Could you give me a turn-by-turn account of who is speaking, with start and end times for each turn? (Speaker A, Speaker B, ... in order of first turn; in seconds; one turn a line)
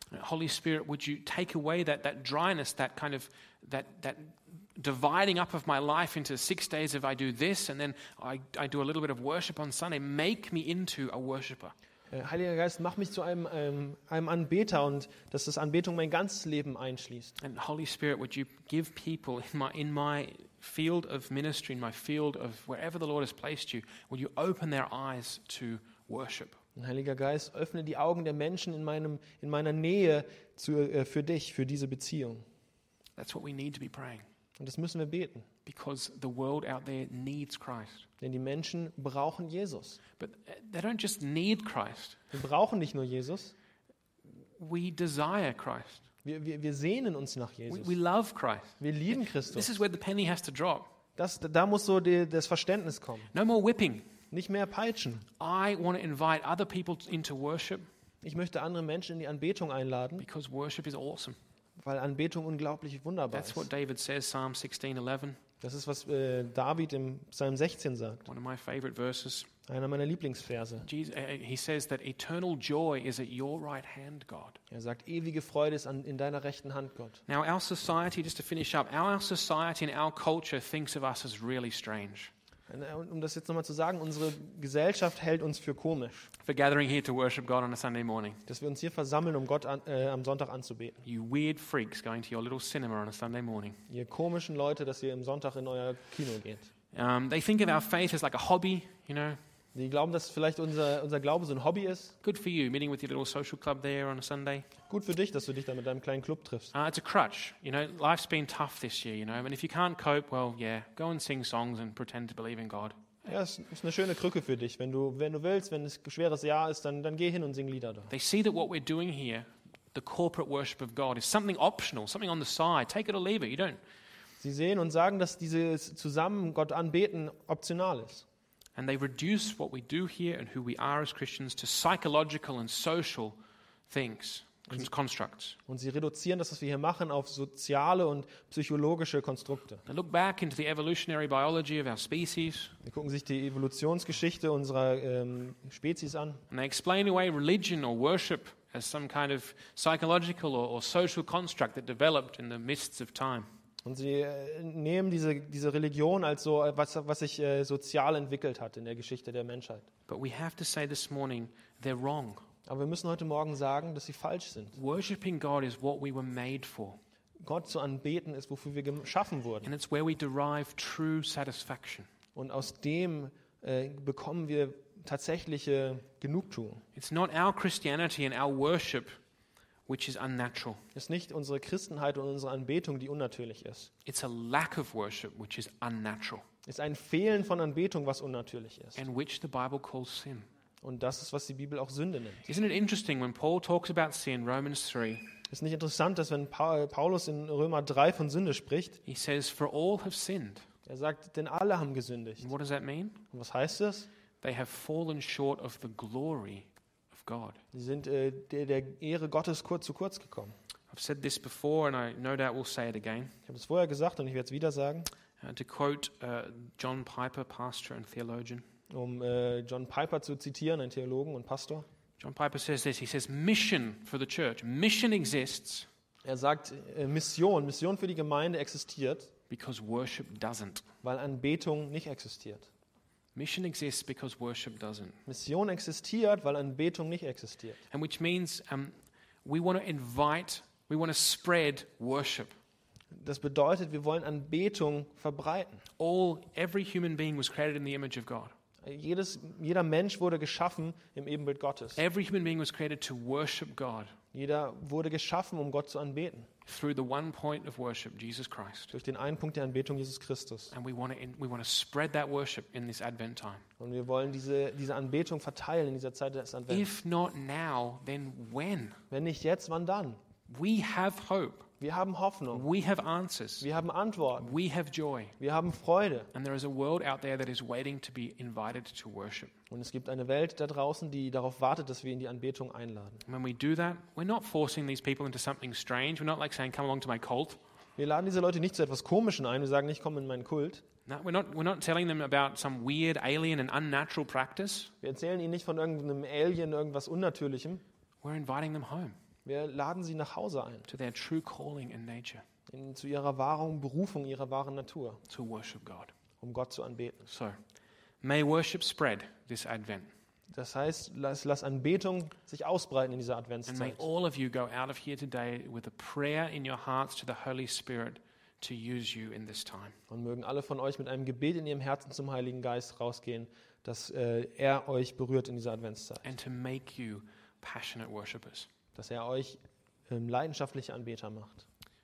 Speaker A: 0.1-11.7
Speaker B: 12.1-17.3
Speaker A: 17.4-26.6
Speaker B: 26.8-32.4
Speaker A: 33.2-34.3
Speaker B: 34.6-35.5
Speaker A: 35.6-38.1
Speaker B: 38.2-40.0
Speaker A: 40.2-42.2
Speaker B: 42.3-43.5
Speaker A: 44.6-46.0
Speaker B: 46.2-48.0
Speaker A: 47.7-50.9
Speaker B: 48.8-49.8
Speaker B: 51.2-53.3
Speaker A: 53.3-54.1
Speaker B: 54.3-55.3
Speaker A: 55.4-57.9
Speaker B: 58.2-60.2
Speaker A: 60.2-61.4
Speaker B: 61.8-63.7
Speaker A: 63.3-65.4
Speaker B: 65.6-68.3
Speaker A: 68.3-69.5
Speaker B: 69.7-70.9
Speaker A: 70.8-74.6
Speaker B: 74.7-77.2
Speaker A: 77.3-82.3
Speaker B: 82.7-86.3
Speaker A: 86.4-88.4
Speaker B: 88.5-91.0
Speaker A: 91.0-93.8
Speaker B: 93.9-96.7
Speaker A: 96.9-99.4
Speaker B: 99.7-102.2
Speaker A: 102.2-104.7
Speaker B: 104.9-106.7
Speaker A: 106.7-113.2
Speaker B: 113.3-118.1
Speaker A: 118.1-123.8
Speaker B: 124.4-128.2
Speaker A: 128.8-133.4
Speaker A: 133.9-135.6
Speaker B: 135.7-139.8
Speaker A: 139.9-142.8
Speaker B: 142.8-146.4
Speaker A: 146.5-153.5
Speaker B: 153.8-159.9
Speaker A: 160.1-162.4
Speaker B: 162.7-164.8
Speaker A: 164.8-167.0
Speaker B: 167.4-169.7
Speaker A: 169.6-172.1
Speaker B: 172.3-176.8
Speaker A: 176.9-179.1
Speaker A: 179.9-180.8
Speaker B: 180.9-183.9
Speaker A: 184.1-186.5
Speaker B: 186.7-189.0
Speaker A: 189.0-190.5
Speaker B: 190.8-192.5
Speaker A: 192.5-195.3
Speaker B: 195.5-199.0
Speaker A: 199.1-200.7
Speaker B: 200.9-202.5
Speaker A: 202.4-203.2
Speaker B: 203.3-204.1
Speaker A: 204.4-207.6
Speaker B: 207.7-210.5
Speaker A: 210.9-213.3
Speaker B: 213.5-215.1
Speaker A: 215.4-218.7
Speaker B: 218.9-221.9
Speaker A: 222.2-225.9
Speaker B: 226.2-229.3
Speaker A: 229.5-230.9
Speaker B: 231.0-232.7
Speaker A: 233.3-235.2
Speaker B: 235.3-237.8
Speaker A: 237.9-242.5
Speaker B: 243.1-245.8
Speaker A: 246.0-248.5
Speaker B: 248.8-252.0
Speaker A: 252.0-254.2
Speaker B: 254.3-256.5
Speaker A: 256.7-258.9
Speaker B: 258.9-260.7
Speaker A: 260.7-263.7
Speaker B: 263.8-266.9
Speaker A: 266.7-269.0
Speaker B: 269.1-270.2
Speaker A: 270.5-271.7
Speaker B: 271.8-272.7
Speaker A: 272.5-273.7
Speaker B: 273.6-274.6
Speaker A: 274.4-275.4
Speaker B: 275.4-276.3
Speaker A: 276.3-279.5
Speaker B: 279.7-283.2
Speaker A: 283.3-287.6
Speaker B: 288.0-290.9
Speaker A: 291.1-294.9
Speaker B: 295.0-297.8
Speaker A: 298.2-299.2
Speaker B: 299.4-300.9
Speaker A: 300.9-302.4
Speaker B: 302.7-305.2
Speaker A: 305.3-306.1
Speaker B: 306.4-307.3
Speaker A: 307.3-307.6
Speaker A: 308.2-310.1
Speaker B: 310.5-314.1
Speaker A: 313.7-320.0
Speaker B: 320.1-326.2
Speaker A: 326.2-328.7
Speaker B: 328.9-331.7